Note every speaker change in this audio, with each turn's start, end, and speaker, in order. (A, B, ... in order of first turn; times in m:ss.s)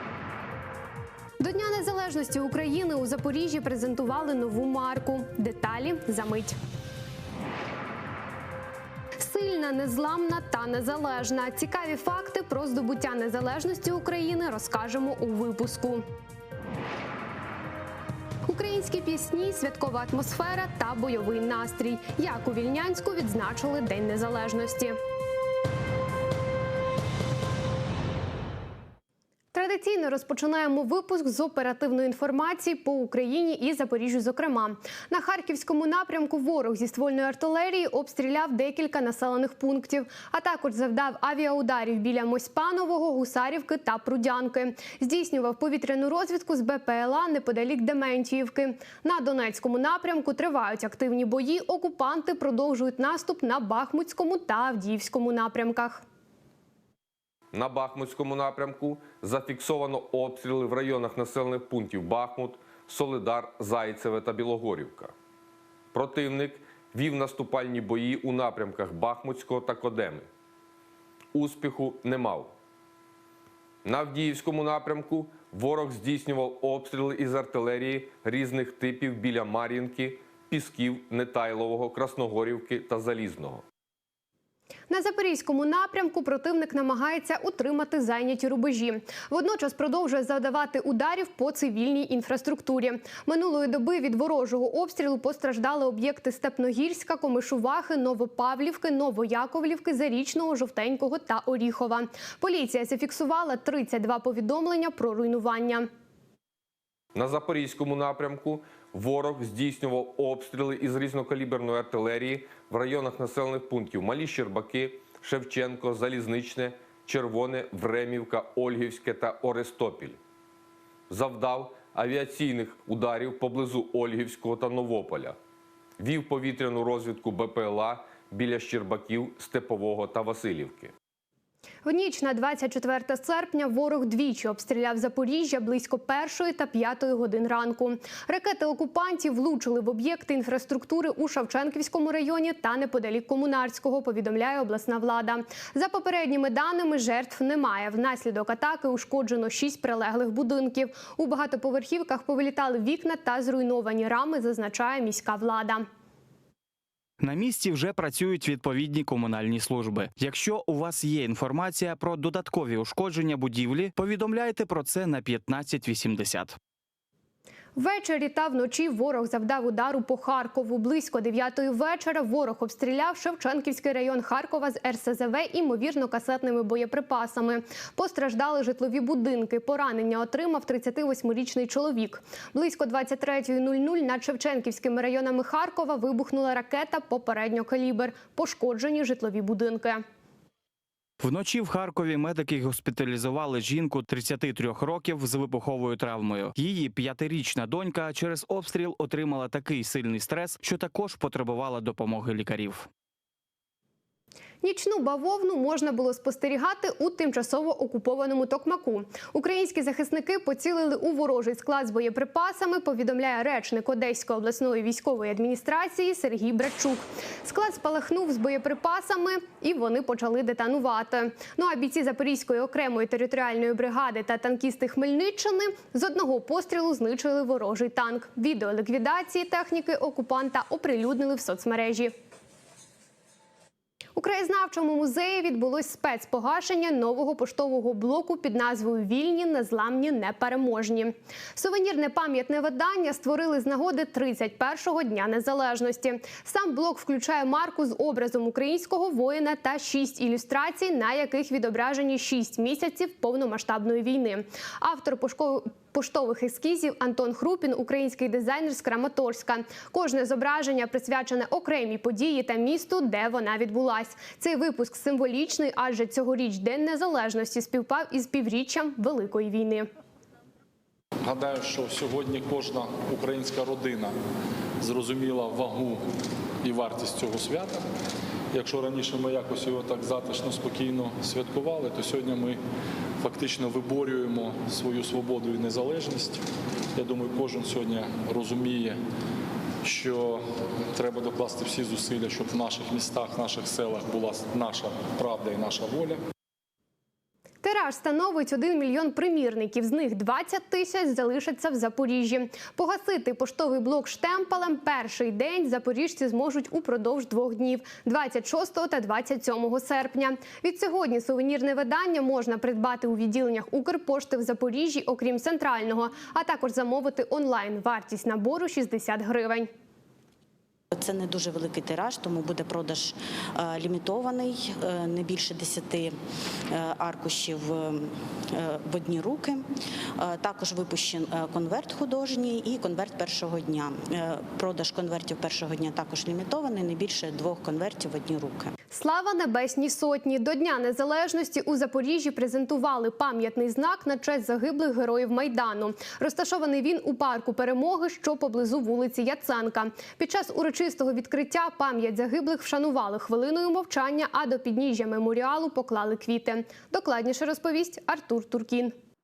0:01.4-0:06.6 A
0:09.2-0:16.0 A
0:18.5-0:25.0 A
0:29.5-0:56.0 A
0:57.5-1:05.1 B
1:05.9-1:10.3 B
1:11.3-1:12.5 B
1:13.8-1:23.6 B
1:24.9-1:45.9 A
1:47.1-2:00.2 B
2:01.1-2:05.4 B
2:06.0-2:10.9 B
2:11.8-2:35.9 A
2:37.2-2:46.6 C
2:47.8-3:10.0 A
3:11.2-3:22.9 C
3:24.6-3:52.1 A
3:54.2-4:29.9 A
4:31.2-4:34.2 D
4:34.8-4:36.0 D
4:36.6-4:37.8 D
4:38.5-4:42.6 D
4:43.2-4:46.4 D
4:47.0-4:49.0 D
4:49.8-4:56.2 D
4:57.6-5:19.7 A
5:21.0-5:26.2 E
5:26.7-5:29.6 E
5:30.2-5:38.7 E
5:38.9-5:58.9 A